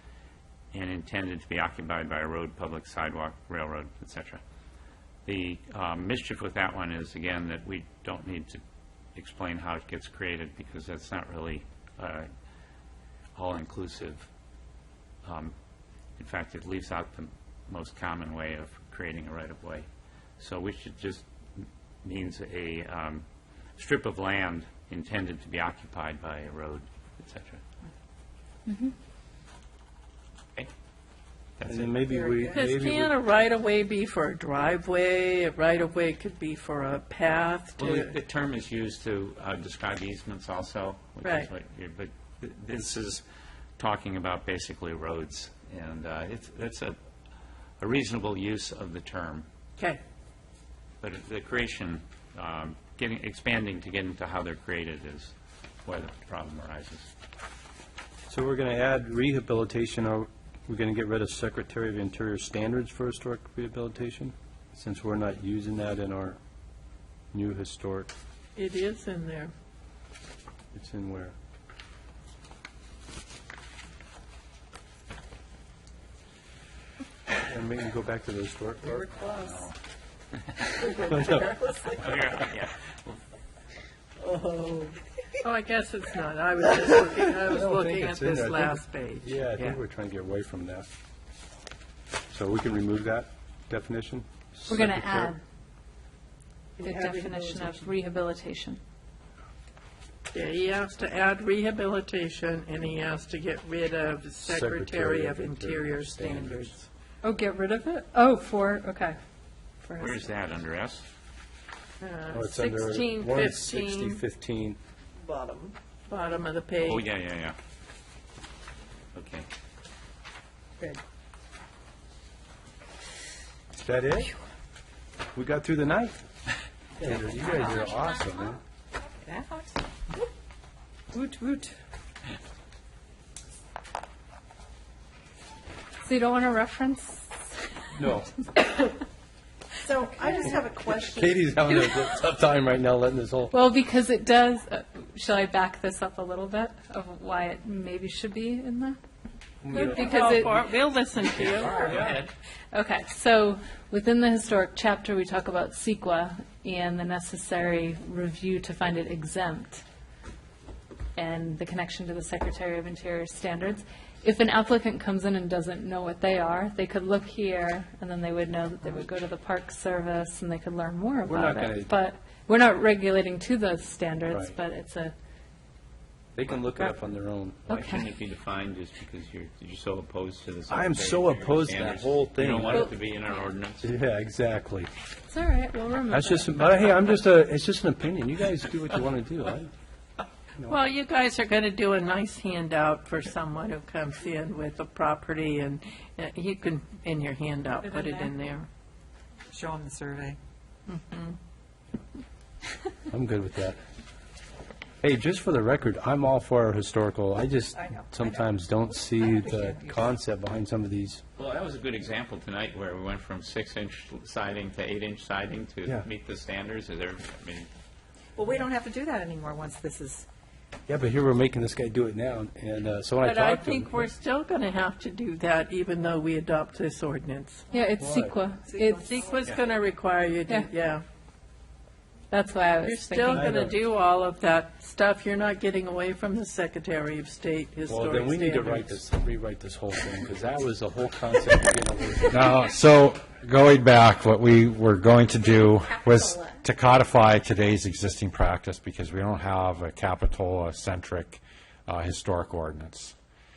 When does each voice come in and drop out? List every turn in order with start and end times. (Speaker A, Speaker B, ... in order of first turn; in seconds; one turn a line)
Speaker A: 0.7-4.4
Speaker A: 5.2-8.6
Speaker A: 9.1-12.3
Speaker A: 13.3-14.3
Speaker A: 15.2-15.5
Speaker A: 16.2-19.9
Speaker A: 20.4-23.2
Speaker A: 23.8-27.6
Speaker A: 31.6-32.0
Speaker B: 31.7-33.1
Speaker C: 32.5-38.1
Speaker A: 37.8-43.2
Speaker C: 41.2-41.5
Speaker A: 43.8-47.0
Speaker A: 47.8-49.5
Speaker A: 51.0-55.3
Speaker A: 55.9-57.1
Speaker B: 58.3-66.4
Speaker B: 67.3-68.1
Speaker C: 68.5-69.5
Speaker B: 70.7-71.3
Speaker B: 77.4-79.1
Speaker D: 79.0-79.5
Speaker A: 79.2-79.7
Speaker A: 80.6-83.2
Speaker B: 81.0-81.5
Speaker D: 81.0-81.8
Speaker D: 84.2-84.9
Speaker C: 85.4-89.8
Speaker B: 87.5-90.9
Speaker B: 92.3-95.3
Speaker E: 94.7-95.4
Speaker E: 96.8-98.8
Speaker C: 100.3-106.8
Speaker B: 104.4-106.7
Speaker E: 107.2-109.2
Speaker E: 109.8-110.2
Speaker A: 110.0-111.0
Speaker C: 112.0-114.2
Speaker B: 112.3-114.8
Speaker D: 115.2-115.7
Speaker C: 116.1-117.0
Speaker A: 116.8-117.5
Speaker A: 119.1-119.5
Speaker B: 123.7-124.3
Speaker B: 125.3-126.2
Speaker B: 127.0-128.6
Speaker D: 129.2-129.7
Speaker D: 131.1-131.7
Speaker E: 136.0-137.3
Speaker B: 137.9-138.3
Speaker D: 139.8-141.3
Speaker B: 140.8-143.6
Speaker E: 143.5-149.0
Speaker B: 149.6-150.1
Speaker C: 149.7-152.0
Speaker E: 149.7-150.6
Speaker A: 151.3-152.3
Speaker E: 152.7-159.8
Speaker E: 161.2-175.1
Speaker B: 171.3-171.9
Speaker B: 176.3-177.8
Speaker A: 177.7-183.9
Speaker B: 180.7-182.9
Speaker B: 183.8-184.9
Speaker E: 185.3-186.5
Speaker B: 186.1-189.7
Speaker C: 190.7-198.7
Speaker D: 199.5-200.4
Speaker C: 200.9-201.3
Speaker B: 203.1-203.8
Speaker B: 205.0-211.2
Speaker D: 209.4-209.9
Speaker A: 211.4-217.7
Speaker D: 218.4-220.2
Speaker B: 220.9-224.0
Speaker C: 223.2-227.7
Speaker E: 227.7-229.1
Speaker B: 228.0-228.3
Speaker D: 228.7-229.5
Speaker C: 228.9-231.0
Speaker E: 232.3-233.4
Speaker C: 232.8-239.0
Speaker B: 233.3-233.8
Speaker B: 237.9-242.6
Speaker F: 242.3-253.1